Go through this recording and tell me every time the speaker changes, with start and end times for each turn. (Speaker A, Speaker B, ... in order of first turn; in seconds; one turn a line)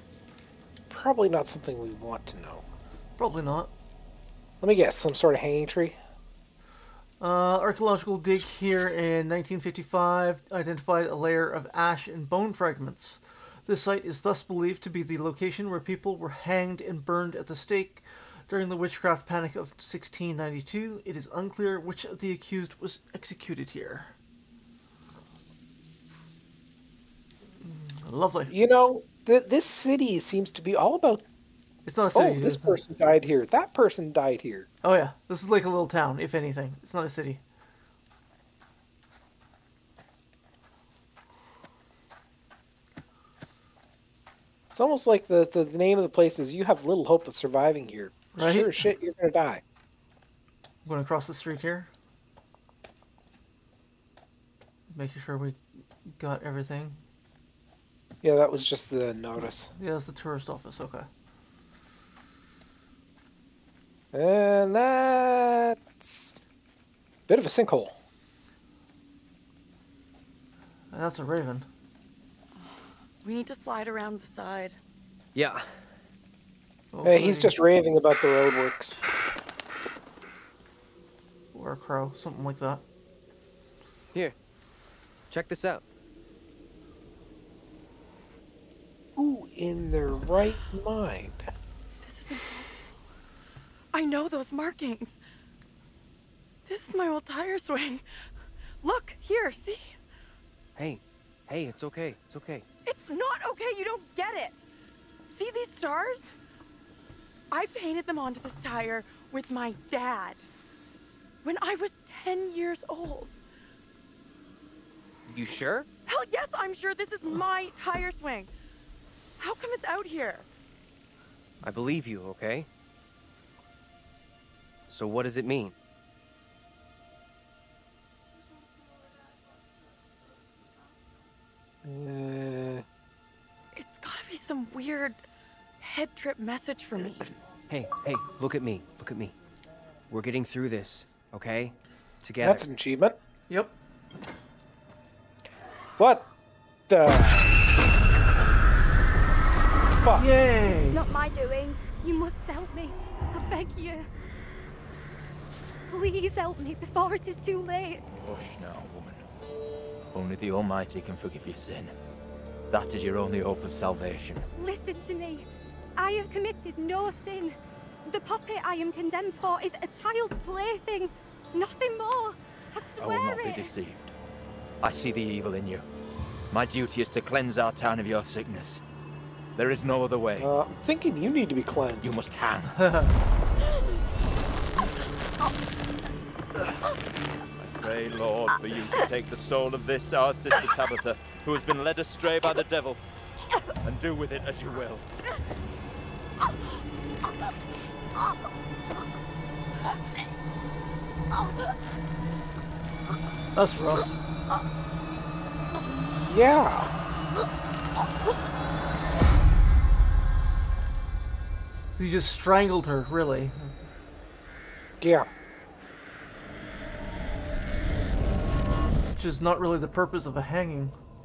Speaker A: 0.9-2.6
Speaker B: 3.2-3.7
Speaker A: 4.6-6.0
Speaker B: 7.2-24.1
Speaker B: 27.6-28.5
Speaker A: 28.5-31.2
Speaker B: 31.9-32.8
Speaker A: 32.1-34.7
Speaker B: 34.8-37.4
Speaker A: 44.7-49.6
Speaker B: 48.4-48.8
Speaker B: 50.9-51.9
Speaker B: 54.9-57.0
Speaker A: 58.2-59.7
Speaker B: 59.8-61.1
Speaker A: 64.1-66.4
Speaker A: 67.3-68.0
Speaker B: 70.9-71.7
Speaker C: 73.2-74.8
Speaker D: 75.3-75.7
Speaker B: 76.9-77.5
Speaker A: 77.0-79.0
Speaker B: 81.5-82.8
Speaker D: 85.3-85.8
Speaker A: 89.2-91.5
Speaker C: 92.0-92.9
Speaker C: 93.9-95.2
Speaker C: 96.7-98.0
Speaker C: 98.8-100.0
Speaker D: 100.8-102.7
Speaker C: 102.9-104.7
Speaker C: 105.3-106.3
Speaker C: 107.5-110.5
Speaker C: 111.4-113.3
Speaker D: 115.3-115.9
Speaker C: 116.1-118.5
Speaker C: 119.4-120.5
Speaker D: 121.6-122.7
Speaker D: 124.9-125.7
Speaker A: 131.8-132.8
Speaker C: 133.8-135.2
Speaker C: 135.8-137.3
Speaker D: 137.7-139.4
Speaker D: 140.1-142.7
Speaker A: 142.4-143.2
Speaker A: 146.0-146.3
Speaker A: 146.9-147.5
Speaker A: 150.0-150.3
Speaker B: 150.2-151.0
Speaker E: 150.9-154.1
Speaker E: 155.9-158.1
Speaker F: 158.2-159.2
Speaker F: 160.1-161.9
Speaker F: 162.7-164.5
Speaker E: 164.6-173.7
Speaker F: 173.0-174.1
Speaker F: 174.8-175.8
Speaker F: 176.5-178.8
Speaker F: 179.6-180.5
Speaker A: 180.4-182.2
Speaker F: 182.0-182.8
Speaker B: 182.8-183.1
Speaker F: 187.6-193.0
Speaker F: 193.8-195.1
Speaker B: 203.6-204.1
Speaker A: 206.3-206.9
Speaker B: 212.0-213.7
Speaker A: 215.0-215.3
Speaker B: 219.1-220.9